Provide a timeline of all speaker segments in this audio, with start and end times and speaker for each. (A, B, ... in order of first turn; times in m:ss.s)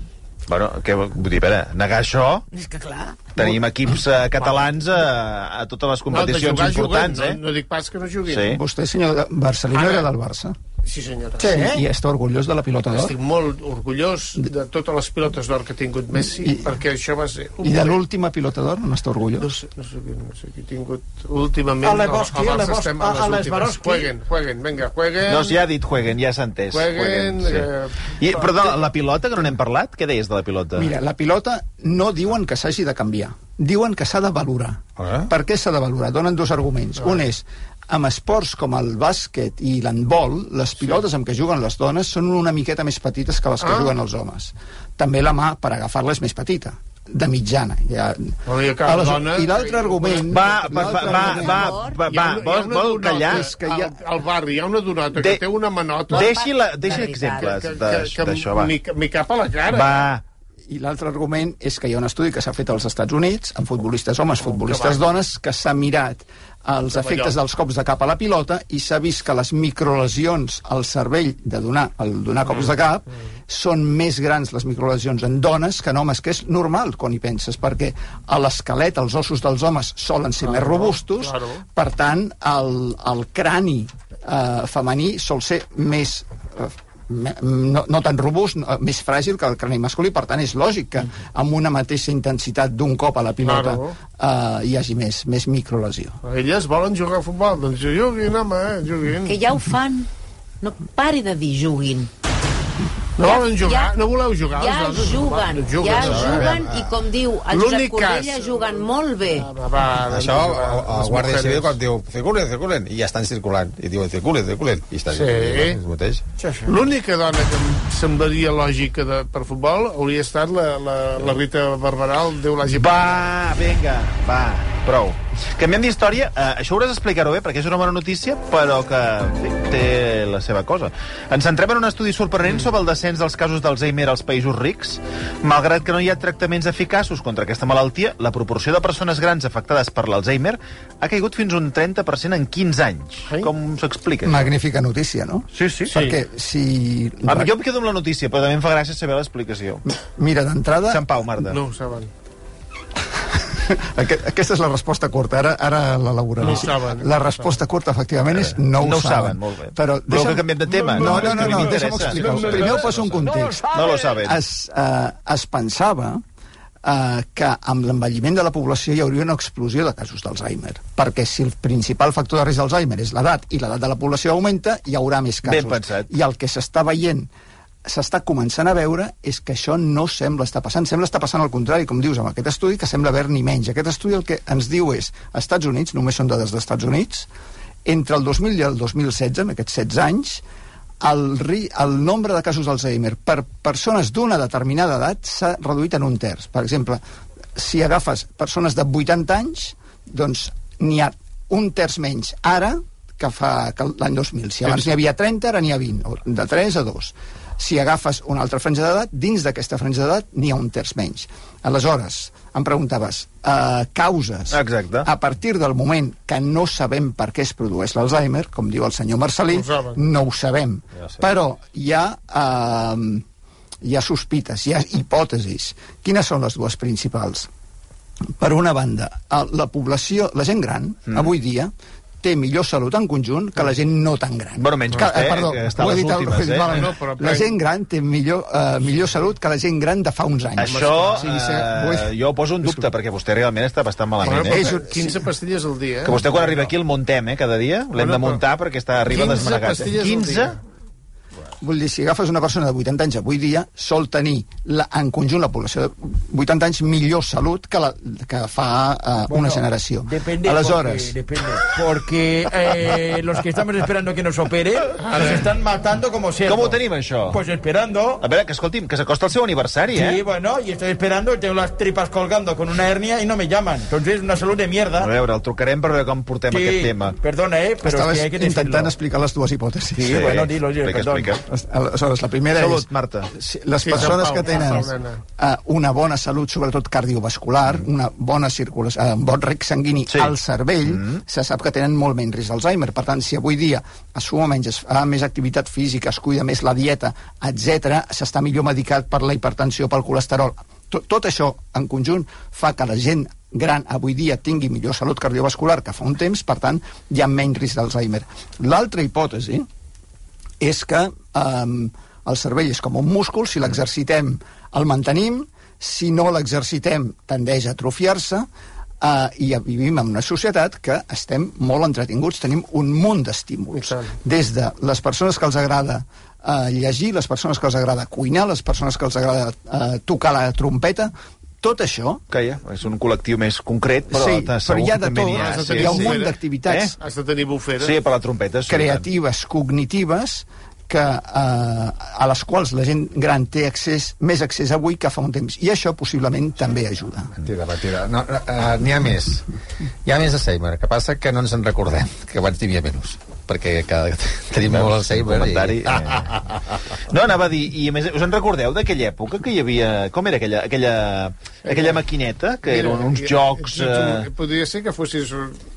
0:00.5-0:02.4 A
0:02.5-0:03.4 B
0:03.4-0:07.4 A
0:06.1-0:08.6 C
0:08.3-0:08.6 A
0:08.5-0:10.5 D
0:09.7-0:10.1 C
0:10.8-0:11.5 C
0:11.4-0:11.8 E
0:11.4-0:13.1 D
0:12.9-0:18.0 C
0:16.2-0:16.7 D
0:17.6-0:19.5 D
0:19.4-0:25.6 C
0:21.8-0:24.1 E
0:25.3-0:30.9 A
0:26.7-0:28.8 C
0:30.7-0:51.7 D
0:35.0-0:35.3 F
0:43.6-0:43.9 C
0:48.4-0:51.5 C
0:50.3-0:53.5 A
0:51.3-0:52.0 B
0:52.0-0:56.4 C
0:53.3-0:54.0 D
0:55.1-0:55.4 A
0:56.1-0:58.7 A
0:56.1-0:57.6 B
0:57.0-1:00.1 C
0:59.7-1:00.2 A
1:00.7-1:36.2 D
1:04.4-1:05.0 C
1:06.9-1:07.3 C
1:20.4-1:21.6 C
1:33.4-1:33.9 C
1:36.2-1:39.4 C
1:39.2-1:40.1 B
1:40.6-1:42.1 B
1:43.2-1:46.7 C
1:43.2-1:43.9 B
1:44.5-1:49.5 B
1:46.1-1:46.9 F
1:47.5-1:51.8 C
1:50.0-1:56.2 F
1:55.1-1:55.8 C
1:56.4-1:56.8 E
1:56.6-2:03.0 C
2:02.7-2:24.5 A
2:24.2-2:27.5 D
2:25.5-2:26.0 A
2:25.9-2:26.2 C
2:27.2-2:29.8 A
2:29.9-2:31.0 D
2:30.9-2:31.6 A
2:31.4-2:32.1 C
2:33.3-2:46.2 D
2:36.4-2:37.1 C
2:38.3-2:42.9 A
2:40.7-2:44.1 E
2:43.7-2:44.4 A
2:46.8-2:57.3 D
2:55.4-2:56.1 A
2:57.8-3:07.3 D
3:07.8-3:10.4 D
3:11.0-3:17.0 D
3:17.5-3:43.2 D
3:34.5-3:35.1 A
3:39.5-3:40.0 C
3:43.8-3:47.5 D
3:48.4-4:02.1 D
3:54.6-3:56.9 A
3:56.7-3:57.5 C
4:00.6-4:04.8 A
4:00.6-4:01.3 C
4:04.2-4:06.6 C
4:04.3-4:05.3 D
4:06.0-4:10.6 A
4:07.9-4:08.4 C
4:09.0-4:10.6 C
4:11.6-4:21.2 D
4:19.3-4:28.2 E
4:25.0-4:25.4 C
4:26.4-4:27.4 A
4:28.2-4:30.2 A
4:29.9-4:35.1 E
4:35.0-4:37.2 A
4:36.5-4:38.9 E
4:37.8-4:40.3 D
4:40.0-4:41.4 A
4:40.0-4:41.4 E
4:41.5-5:09.7 D
4:42.5-4:43.3 A
4:43.8-4:45.2 C
4:43.9-4:44.2 A
4:50.8-4:51.2 A
5:10.6-5:18.5 D
5:19.0-5:32.2 D
5:23.7-5:24.1 C
5:32.3-5:37.0 A
5:34.1-5:36.9 D
5:35.3-5:36.4 C
5:37.0-5:37.9 C
5:37.8-5:39.0 A
5:38.7-5:47.3 D
5:47.4-5:49.4 F
5:50.0-5:56.6 F
5:54.6-5:56.4 A
5:57.1-6:04.3 A
6:01.6-6:02.0 C
6:02.6-6:05.6 C